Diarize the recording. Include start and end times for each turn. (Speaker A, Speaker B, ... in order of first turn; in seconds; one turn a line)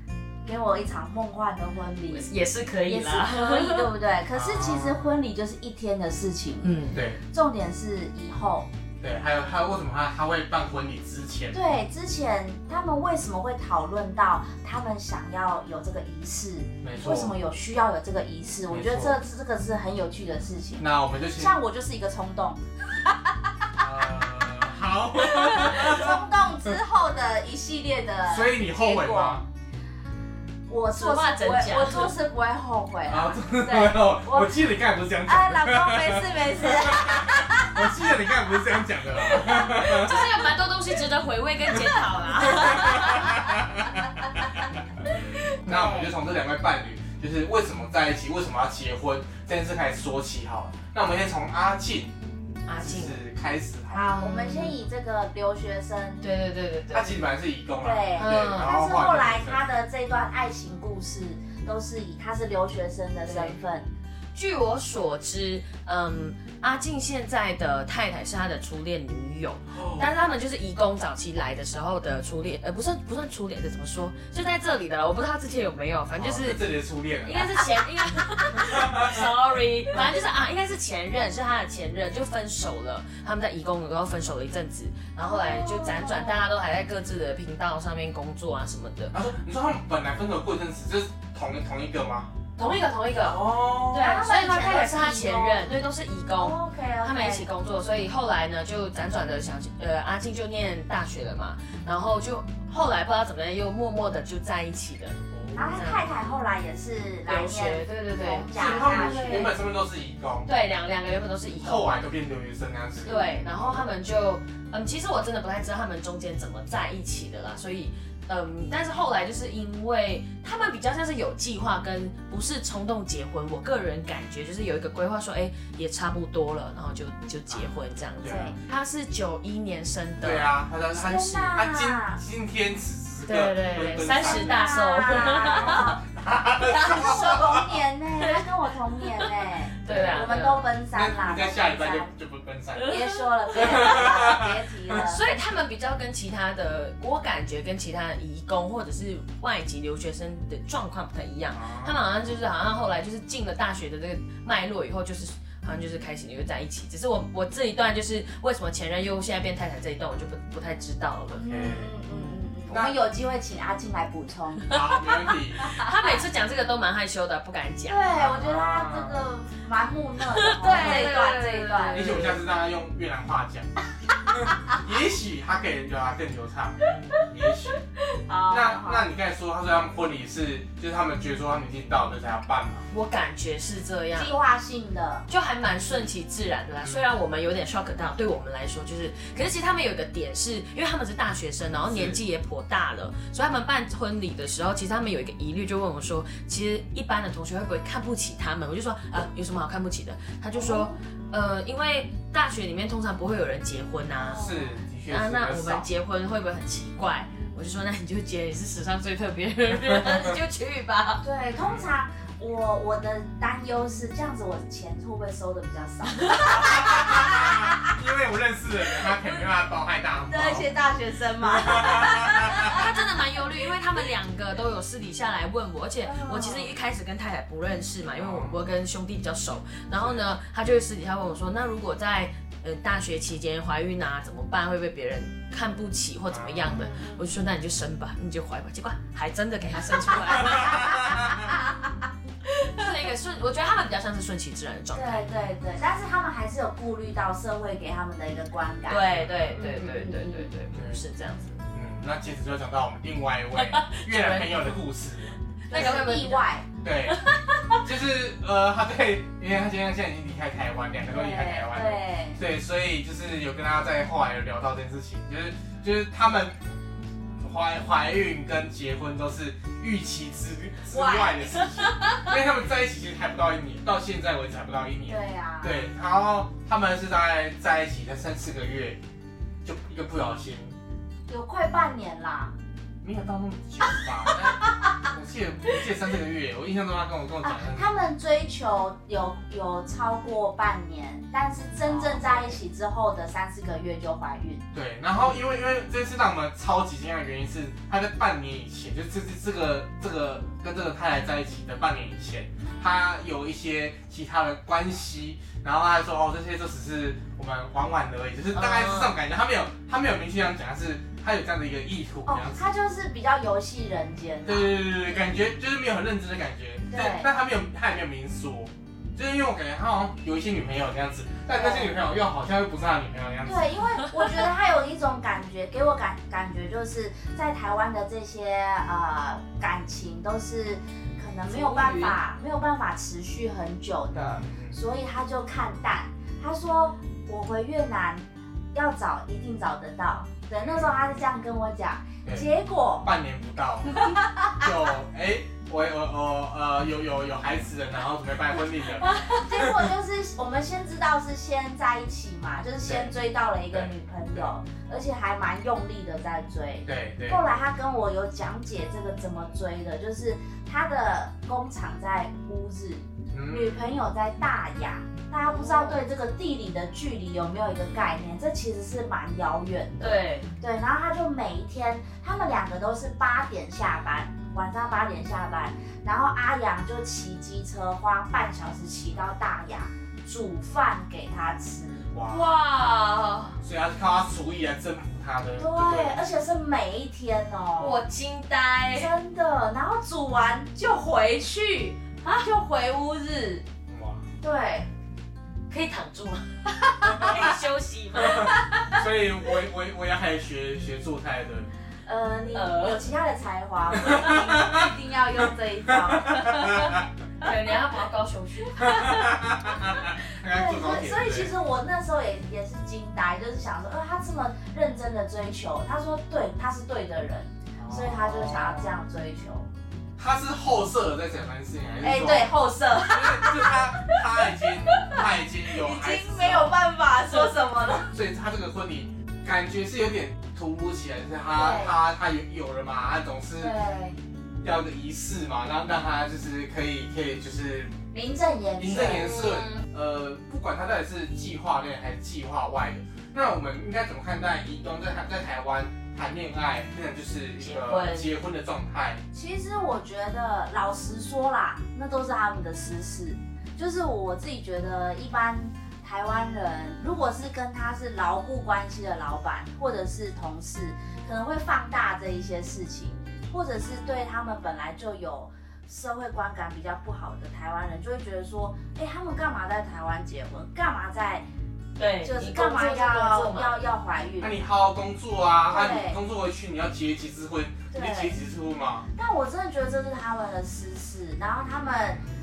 Speaker A: 0.5-2.3
Speaker B: 2.1-3.9
Speaker A: 2.9-6.8
Speaker C: 4.3-5.2
Speaker B: 6.6-7.0
Speaker A: 7.3-8.7
Speaker C: 9.0-11.6
Speaker A: 11.5-23.1
Speaker C: 16.8-17.4
Speaker C: 18.7-19.2
Speaker C: 20.8-21.6
Speaker C: 23.8-26.8
Speaker A: 25.2-29.4
Speaker C: 28.2-29.4
Speaker A: 30.7-34.6
Speaker B: 30.9-32.1
Speaker C: 33.1-40.3
Speaker A: 35.2-38.0
Speaker B: 39.5-43.4
Speaker C: 42.4-44.8
Speaker C: 45.6-52.1
Speaker A: 45.7-46.1
Speaker B: 52.7-53.2
Speaker C: 52.8-54.1
Speaker A: 53.9-56.2
Speaker B: 53.9-54.8
Speaker B: 56.2-57.2
Speaker C: 56.9-59.6
Speaker A: 57.8-63.9
Speaker B: 58.2-58.7
Speaker B: 63.3-63.6
Speaker B: 64.3-76.6
Speaker C: 69.7-70.1
Speaker C: 76.2-77.6
Speaker B: 77.2-89.2
Speaker C: 78.6-79.3
Speaker A: 85.3-86.4
Speaker C: 89.1-94.1
Speaker B: 92.6-106.1
Speaker A: 93.9-95.7
Speaker A: 96.4-97.5
Speaker C: 105.3-105.8
Speaker A: 105.5-109.5
Speaker B: 107.3-109.5
Speaker C: 108.5-110.5
Speaker B: 110.5-112.0
Speaker C: 111.6-113.8
Speaker B: 113.0-130.6
Speaker A: 113.1-113.3
Speaker C: 128.2-128.5
Speaker A: 128.2-128.6
Speaker C: 130.2-134.8
Speaker A: 130.9-132.2
Speaker B: 133.3-135.9
Speaker A: 134.1-136.0
Speaker C: 135.5-137.8
Speaker A: 136.6-142.1
Speaker B: 136.9-137.4
Speaker B: 138.2-138.4
Speaker B: 139.8-140.7
Speaker C: 139.9-140.3
Speaker C: 140.9-143.0
Speaker B: 142.8-144.1
Speaker A: 142.8-145.3
Speaker C: 143.5-145.0
Speaker B: 144.9-161.4
Speaker C: 151.5-152.0
Speaker A: 161.3-164.8
Speaker C: 161.4-161.9
Speaker C: 162.7-162.9
Speaker C: 164.7-165.8
Speaker A: 165.6-166.2
Speaker B: 165.6-168.1
Speaker A: 167.9-172.3
Speaker C: 168.1-169.2
Speaker B: 170.3-172.4
Speaker C: 171.9-173.7
Speaker C: 174.3-177.8
Speaker A: 178.2-179.1
Speaker C: 178.5-182.9
Speaker B: 182.9-184.3
Speaker A: 184.1-185.3
Speaker B: 185.3-204.4
Speaker C: 186.8-187.1
Speaker C: 191.9-192.2
Speaker A: 200.5-201.0
Speaker A: 204.2-204.8
Speaker C: 204.3-205.9
Speaker B: 205.1-211.2
Speaker A: 207.3-207.6
Speaker A: 211.2-217.9
Speaker C: 211.6-211.9
Speaker B: 216.1-216.7
Speaker C: 216.5-220.7
Speaker A: 220.3-222.9
Speaker C: 221.4-222.9
Speaker B: 222.5-241.1
Speaker A: 226.0-226.7
Speaker C: 228.2-228.6
Speaker C: 230.0-230.3
Speaker C: 236.3-236.8
Speaker A: 236.7-237.3
Speaker A: 240.4-241.7
Speaker B: 242.5-245.3
Speaker A: 244.9-250.5
Speaker B: 248.9-251.6
Speaker C: 249.1-249.7
Speaker C: 250.7-251.0
Speaker C: 251.7-256.0
Speaker B: 253.6-254.8
Speaker B: 255.7-256.4
Speaker A: 255.7-256.7
Speaker C: 256.8-257.2
Speaker B: 257.1-257.9
Speaker C: 257.7-266.6
Speaker A: 261.1-262.4
Speaker C: 267.4-279.0
Speaker A: 270.9-271.9
Speaker A: 275.1-275.9
Speaker C: 279.6-280.8
Speaker A: 281.3-282.5
Speaker C: 283.0-287.9
Speaker A: 287.4-294.6
Speaker C: 291.8-292.6
Speaker C: 294.7-312.7
Speaker B: 308.6-309.1
Speaker A: 312.3-314.9
Speaker C: 314.5-323.7
Speaker A: 316.9-317.3
Speaker A: 321.5-322.0
Speaker A: 323.4-343.1
Speaker B: 331.5-332.2
Speaker C: 334.1-334.8
Speaker C: 340.6-341.0
Speaker C: 343.0-349.9
Speaker A: 343.9-344.7
Speaker A: 349.2-382.1
Speaker C: 352.8-353.1
Speaker C: 353.7-354.5
Speaker C: 356.9-357.4
Speaker C: 363.3-363.8
Speaker B: 365.5-366.0
Speaker B: 370.0-370.5
Speaker C: 382.1-382.4
Speaker B: 382.3-383.6
Speaker C: 383.6-386.2
Speaker A: 385.6-388.0
Speaker B: 387.8-389.1
Speaker A: 388.9-393.6
Speaker C: 393.9-394.2
Speaker A: 394.4-394.9
Speaker B: 395.7-398.6
Speaker A: 397.1-397.4
Speaker C: 398.2-401.7
Speaker A: 398.2-398.9
Speaker A: 402.1-407.0
Speaker B: 402.5-403.0
Speaker C: 404.0-404.9
Speaker C: 406.1-407.0
Speaker B: 407.4-409.3
Speaker C: 408.8-411.5
Speaker A: 410.4-419.7
Speaker C: 417.8-419.0
Speaker C: 420.2-426.8
Speaker A: 422.0-424.2
Speaker A: 424.8-428.1
Speaker C: 427.9-433.8
Speaker A: 431.6-432.0
Speaker A: 433.6-434.2
Speaker C: 434.6-437.9
Speaker A: 438.1-439.4
Speaker C: 438.8-449.2
Speaker B: 438.9-439.8
Speaker B: 447.6-448.3
Speaker A: 449.3-471.4
Speaker B: 472.0-473.8
Speaker A: 472.2-474.6
Speaker C: 474.4-479.1
Speaker A: 475.7-476.2
Speaker A: 477.9-478.4
Speaker A: 479.1-482.2